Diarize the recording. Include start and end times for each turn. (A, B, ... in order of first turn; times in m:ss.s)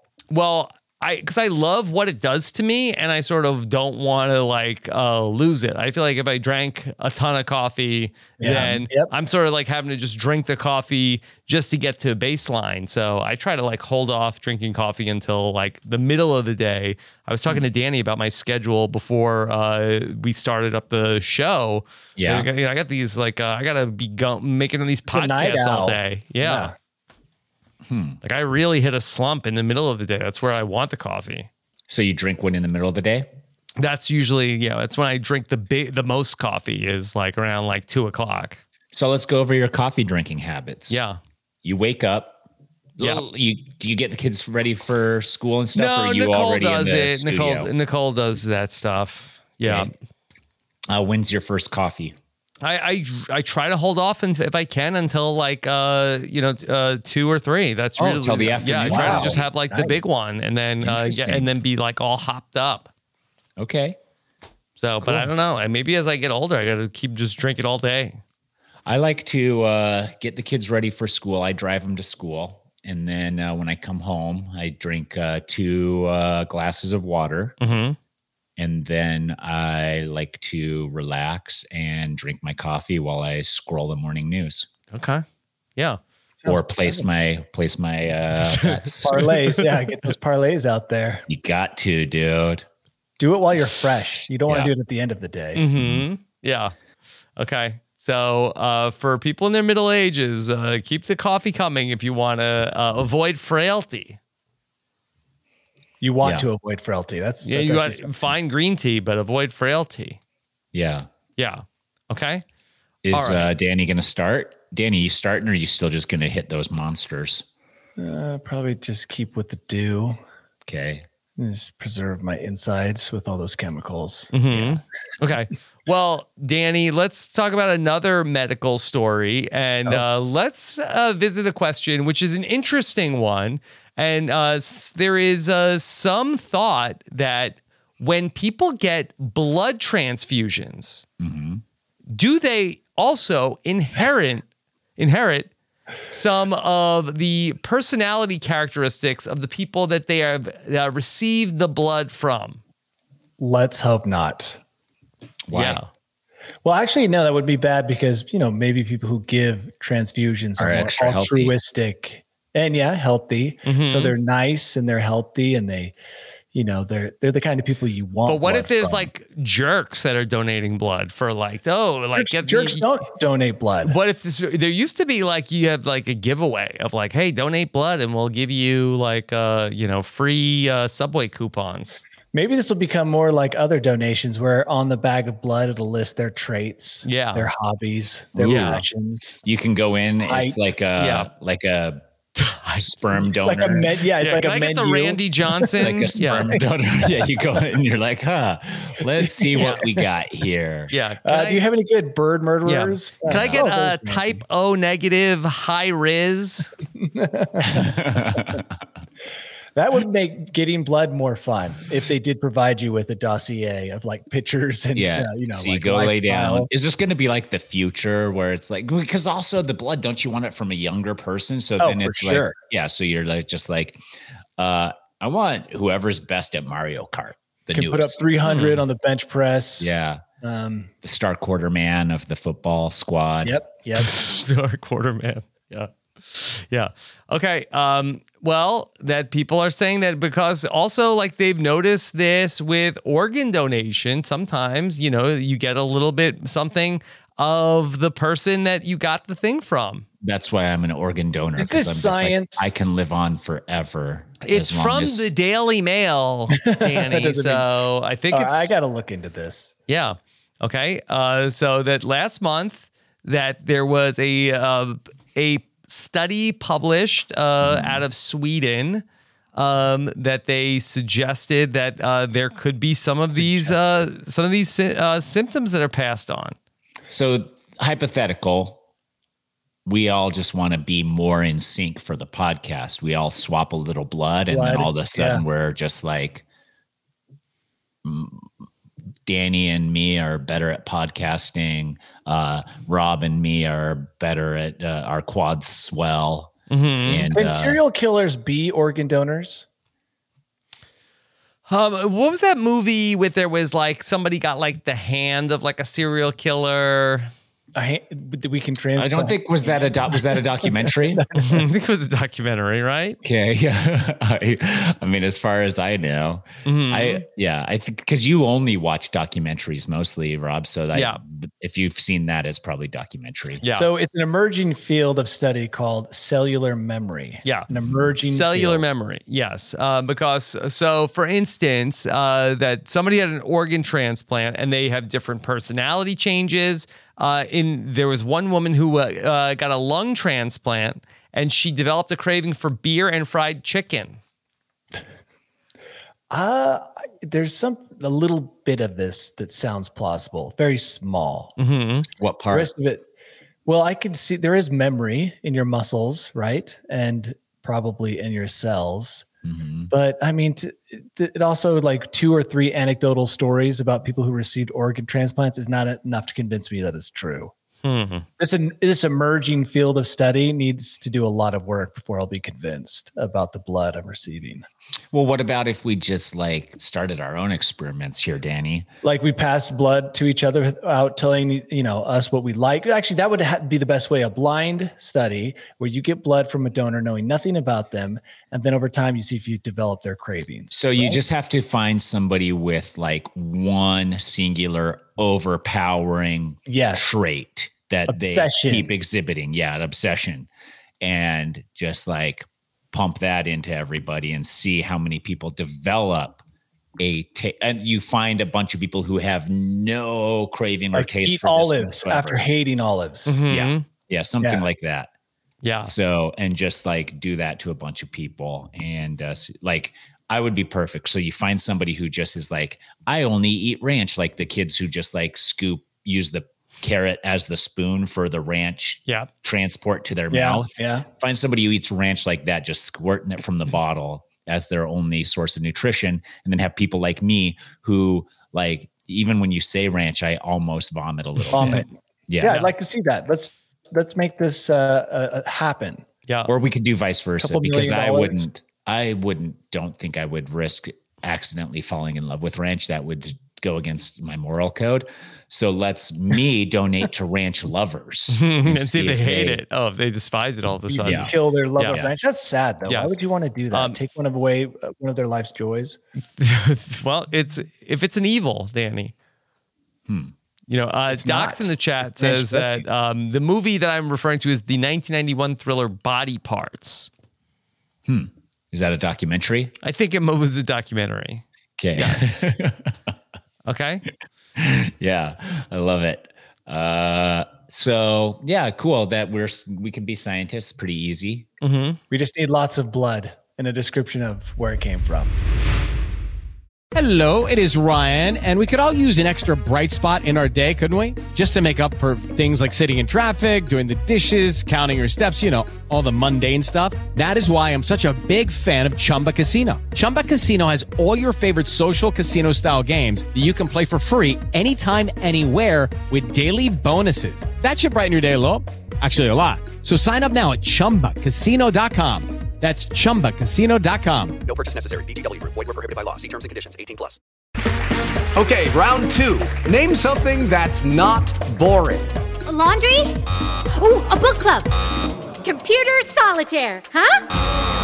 0:00.3-0:26.7 A
0:08.4-0:09.1 B
0:22.2-0:22.5 C
0:25.1-0:26.7 B
0:27.9-0:28.2 C
0:28.2-0:31.5 A
0:31.9-0:33.3 C
0:33.8-0:38.6 A
0:38.9-0:41.0 C
0:40.9-0:41.2 A
0:41.6-0:42.4 C
0:43.0-0:47.7 C
0:45.7-0:49.9 A
0:49.6-0:49.9 C
0:50.9-0:52.2 C
0:52.6-1:02.9 A
0:58.0-0:59.5 C
0:58.9-1:00.2 B
1:00.8-1:01.5 C
1:03.6-1:04.0 C
1:04.8-1:08.2 A
1:05.0-1:05.3 C
1:08.9-1:17.6 C
1:17.6-1:18.0 A
1:18.6-1:24.7 C
1:24.9-1:25.2 A
1:26.4-1:27.2 B
1:26.4-1:29.3 C
1:28.4-1:29.7 A
1:29.0-1:31.2 B
1:31.3-1:32.6 C
1:33.2-1:35.6 B
1:35.5-1:36.7 A
1:35.8-1:36.0 C
1:37.4-1:44.2 A
1:46.0-1:48.1 B
1:47.4-1:50.2 A
1:50.7-1:51.1 C
1:51.4-1:52.4 A
1:53.0-1:57.5 C
1:53.1-1:53.5 A
1:58.0-2:00.2 B
2:00.6-2:01.0 C
2:01.4-2:04.3 B
2:04.3-2:21.0 A
2:21.2-2:21.6 C
2:22.1-2:24.4 A
2:25.0-2:25.5 A
2:26.1-2:32.6 A
2:33.4-2:34.6 B
2:35.5-2:35.8 C
2:35.5-2:35.9 A
2:36.6-2:45.9 B
2:40.6-2:41.5 C
2:43.6-2:44.1 A
2:46.5-2:49.1 B
2:48.2-2:52.9 A
2:52.2-2:54.0 B
2:53.8-3:02.0 A
3:02.3-3:09.4 B
3:07.0-3:07.5 A
3:08.4-3:08.8 C
3:08.4-3:08.8 A
3:09.4-3:12.0 C
3:10.2-3:10.6 B
3:11.0-3:11.3 A
3:12.4-3:12.9 A
3:12.8-3:13.9 C
3:13.2-3:17.3 B
3:14.2-3:16.6 A
3:15.8-3:20.9 C
3:19.2-3:19.7 B
3:19.6-3:19.9 A
3:20.9-3:21.6 A
3:21.2-3:24.4 B
3:22.6-3:26.7 A
3:23.3-3:23.6 C
3:27.0-3:27.9 B
3:27.6-3:28.7 C
3:29.7-3:36.7 B
3:34.9-3:44.0 C
3:41.8-3:42.6 B
3:44.6-3:48.7 C
3:47.7-3:50.9 B
3:48.4-3:48.8 A
3:49.8-3:50.2 C
3:51.0-3:53.6 C
3:53.4-3:54.2 B
3:54.0-4:10.0 A
4:10.2-4:15.3 C
4:11.6-4:12.7 B
4:14.4-4:18.7 A
4:16.5-4:17.6 B
4:18.3-4:19.7 B
4:19.9-4:29.0 A
4:27.6-4:28.0 C
4:29.5-4:36.6 A
4:37.1-4:38.8 C
4:39.8-4:46.4 C
4:44.5-4:45.4 B
4:48.0-4:48.5 C
4:49.2-4:57.8 C
4:56.7-4:57.3 A
4:57.2-4:59.6 B
5:01.7-5:07.3 A
5:07.7-5:11.6 B
5:09.0-5:11.2 C
5:11.4-5:13.2 A
5:13.2-5:23.6 C
5:16.6-5:17.2 A
5:20.9-5:21.2 A
5:23.6-5:23.9 A
5:23.7-5:28.8 B
5:28.3-5:44.2 A
5:46.3-5:51.5 B
5:51.6-5:52.1 A
5:52.2-5:52.7 C
5:52.5-5:53.0 B
5:53.6-5:59.2 B
5:59.4-5:59.9 C
5:59.9-6:07.5 B
6:07.8-6:08.2 A
6:08.4-6:14.6 B
6:15.1-6:18.9 C
6:19.0-6:31.2 B
6:30.7-6:40.5 C
6:36.7-6:37.2 B
6:38.1-6:38.9 B
6:41.0-6:46.4 C
6:47.0-6:52.5 C
6:50.9-6:53.4 B
6:53.3-6:53.8 A
6:53.5-6:55.1 C
6:55.6-6:55.9 A
6:55.8-7:22.6 C
7:10.3-7:11.1 B
7:21.5-7:26.0 B
7:26.5-7:39.6 C
7:27.4-7:28.4 B
7:38.3-7:42.0 A
7:40.9-7:46.0 B
7:41.0-7:41.3 C
7:42.9-7:43.2 A
7:43.7-7:44.0 A
7:46.4-7:49.1 A
7:50.1-7:50.3 C
7:50.7-7:57.1 A
7:51.1-7:52.8 B
7:58.1-7:59.7 C
7:59.8-8:01.4 A
8:01.8-8:02.9 C
8:02.0-8:02.4 A
8:03.7-8:04.0 A
8:04.6-8:11.5 C
8:11.6-8:12.0 A
8:12.1-8:15.3 B
8:16.9-8:44.4 D
8:44.4-8:47.2 E
8:48.4-8:52.1 F
8:52.4-8:53.2 G
8:53.7-8:54.7 G
8:55.4-8:57.2 G